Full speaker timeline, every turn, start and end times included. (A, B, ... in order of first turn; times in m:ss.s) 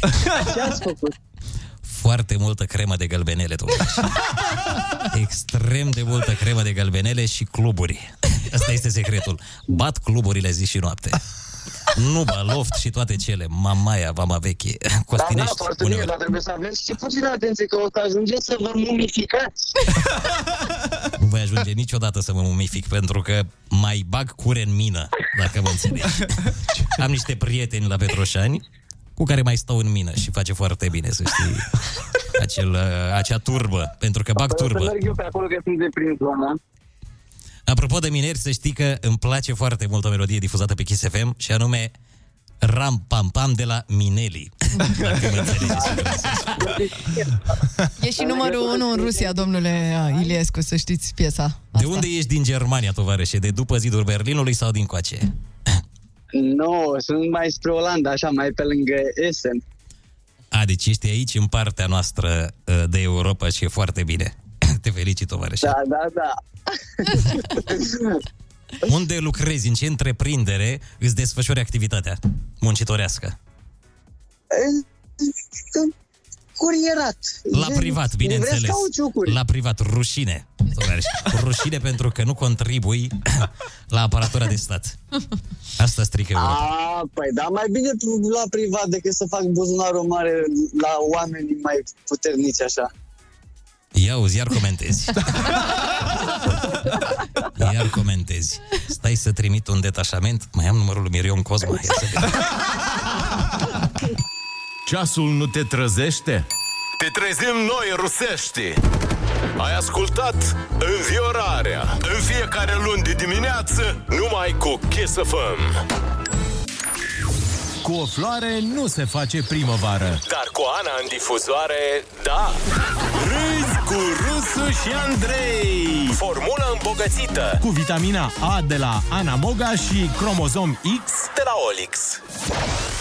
0:00.3-0:01.1 A
0:01.8-0:11.2 B
0:11.9-0:16.1 B
0:15.2-0:19.5 A
0:21.2-0:28.6 B
0:29.2-0:31.8 B
0:32.3-0:35.0 B
0:34.3-0:36.6 A
0:37.7-0:41.9 B
0:42.6-0:46.7 B
0:45.2-0:47.3 A
0:48.0-0:52.1 C
0:48.2-0:50.3 A
0:51.7-0:55.3 B
0:56.3-0:59.6 A
1:00.5-1:05.8 B
1:05.6-1:06.3 A
1:07.0-1:08.2 A
1:08.8-1:13.3 B
1:14.5-1:14.8 A
1:16.6-1:19.4 A
1:17.5-1:25.0 B
1:25.8-1:26.6 B
1:26.3-1:32.9 A
1:33.9-1:35.6 B
1:37.5-1:42.4 B
1:44.8-1:46.4 D
1:47.0-1:48.7 E
1:49.6-1:55.8 E
1:57.8-2:00.2 D
2:00.2-2:02.6 E
2:03.2-2:04.4 E
2:03.3-2:06.2 D
2:06.1-2:07.6 E
2:07.6-2:11.2 D
2:11.2-2:12.2 E